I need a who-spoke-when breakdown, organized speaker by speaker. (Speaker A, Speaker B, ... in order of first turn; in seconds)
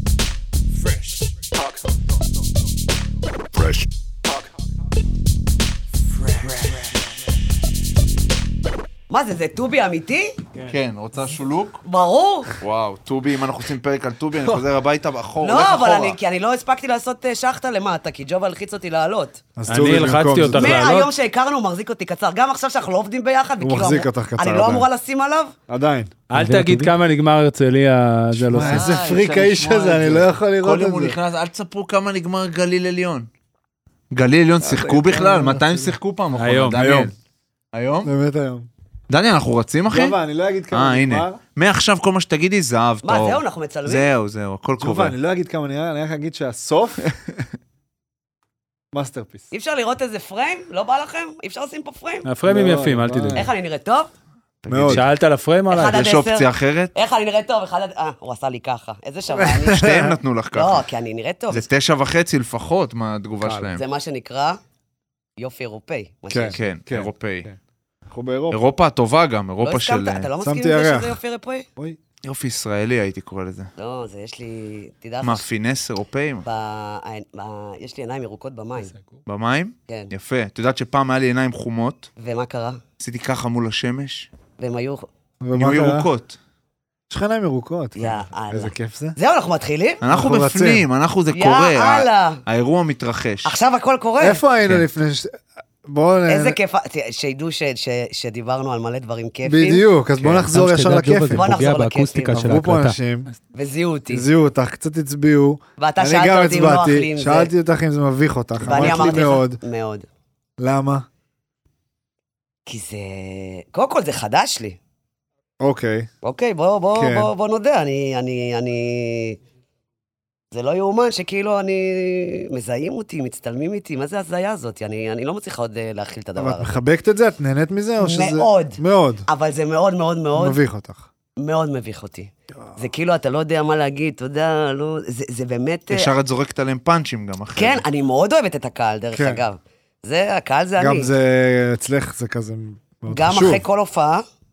Speaker A: 9.1-10.4, 11.8-12.5, 15.4-19.4, 20.5-25.6, 28.6-29.4, 43.0-44.1, 49.5-52.3, 53.3-54.1, 55.7-59.9, 60.5-61.7, 63.7-64.6, 65.4-66.7, 69.6-71.7, 73.8-75.5, 76.4-78.9, 82.2-82.8, 84.6-85.1, 87.9-90.0, 91.3-92.4, 93.4-94.4, 96.3-99.9, 101.3-102.5, 103.5-104.3, 105.8-107.5, 108.6-110.0, 112.7-114.8, 116.2-119.4, 120.5-126.8, 128.0-130.6, 131.4-136.1, 137.6-141.1, 143.1-144.2
Speaker B: 10.7-11.8, 12.6-16.1, 28.7-33.3, 34.1-37.1, 37.7-38.1, 39.1-40.2, 40.7-45.1, 54.6-55.1, 55.8-56.9, 59.5-60.9, 61.5-63.8, 66.5-67.5, 68.5-70.3, 72.2-73.7, 75.2-76.5, 79.2-82.1, 83.0-84.3, 85.5-86.4, 90.0-93.5, 100.2-100.5, 108.6-109.3, 135.9-137.8
Speaker C: 19.6-20.8, 23.6-24.9, 25.7-26.9, 28.3-31.1, 34.6-35.9, 36.7-37.1, 38.0-38.7, 39.9-41.4, 44.8-47.2, 48.9-49.5, 52.4-53.5, 54.7-55.0, 59.4-60.2, 63.4-63.7, 66.3-67.5, 68.1-68.6, 70.4-71.2, 85.4-86.1, 87.1-89.2, 90.1-90.8, 94.2-96.6, 99.4-101.5, 102.3-103.3, 104.1-109.6, 110.6-111.0, 115.6-116.1, 116.9-117.3, 126.3-129.2, 130.4-131.1, 139.1-139.4, 140.8-143.6
Speaker D: 19.7-21.1, 26.3-28.8, 36.3-37.0, 52.2-53.5, 54.8-56.0, 100.2-103.0